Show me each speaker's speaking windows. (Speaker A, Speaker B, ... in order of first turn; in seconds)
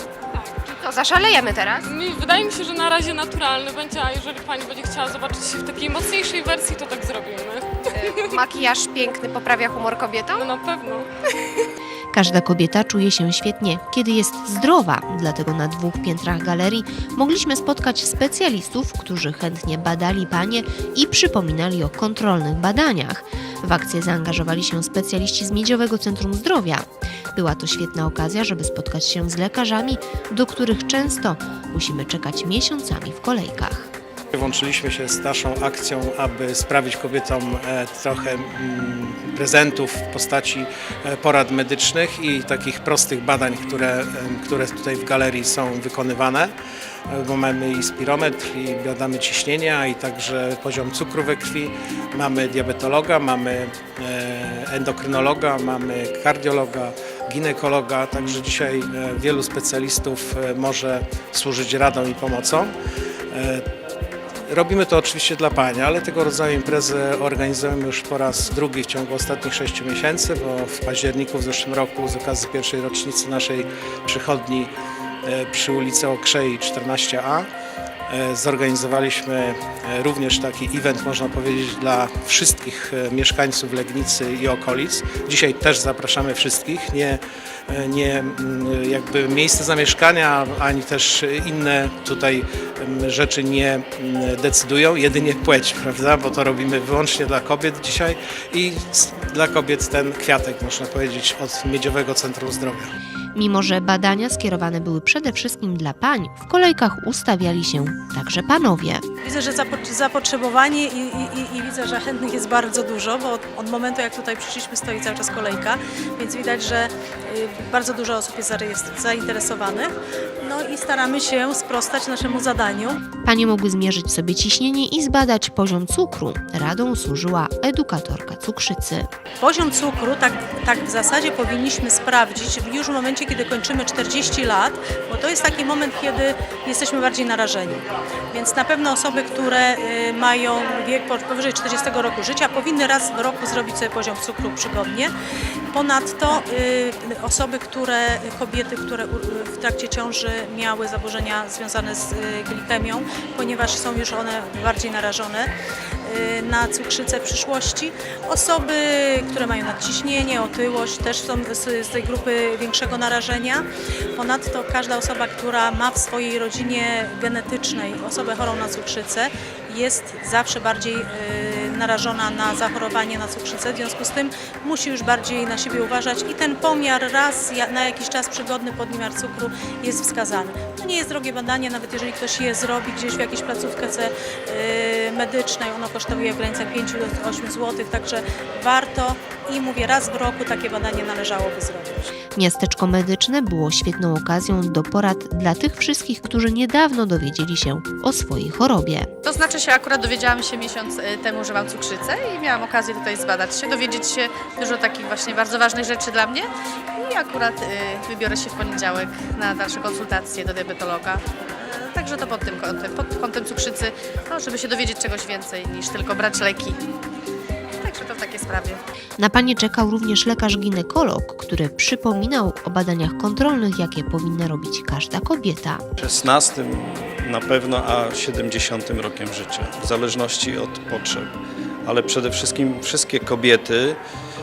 Speaker A: 0.4-0.7, 1.8-8.4, 10.3-11.1
Speaker B: 0.8-1.8, 8.0-10.4
Speaker C: 12.1-33.9, 103.3-109.0, 123.2-129.1, 192.3-199.1, 219.2-225.8
Speaker D: 34.3-46.5, 47.1-62.7, 63.3-63.6, 64.5-74.7, 75.2-77.5, 78.1-102.9
Speaker E: 109.2-123.0, 129.4-145.1, 145.7-155.5, 156.0-163.6, 164.2-192.1
Speaker F: 199.2-216.8, 217.8-218.8
Speaker G: 226.0-231.3, 231.8-234.0